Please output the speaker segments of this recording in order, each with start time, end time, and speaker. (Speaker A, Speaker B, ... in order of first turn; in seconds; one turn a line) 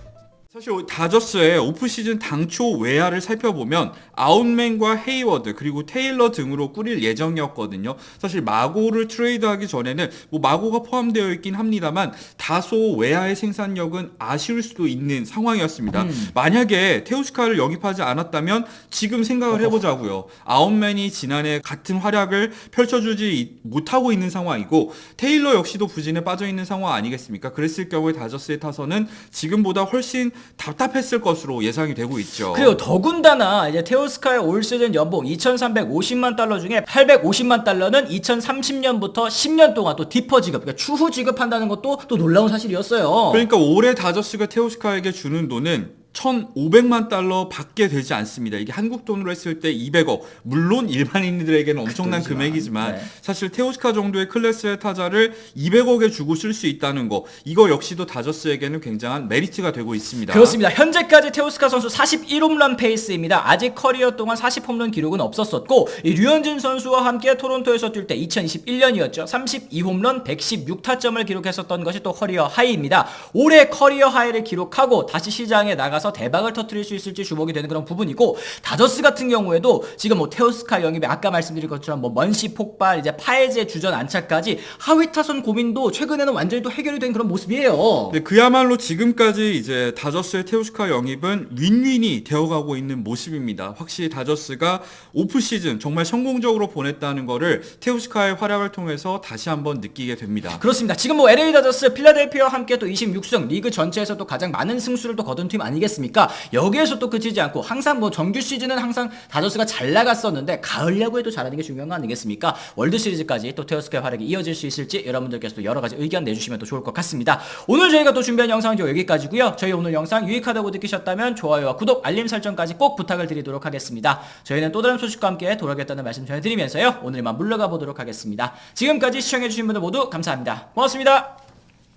Speaker A: 0.5-32.8
Speaker B: 15.9-16.3
Speaker B: 19.5-19.8
Speaker B: 32.5-43.5
Speaker A: 43.3-60.6
Speaker B: 51.9-53.1
Speaker B: 60.3-88.2
Speaker A: 88.1-100.6
Speaker B: 100.5-131.4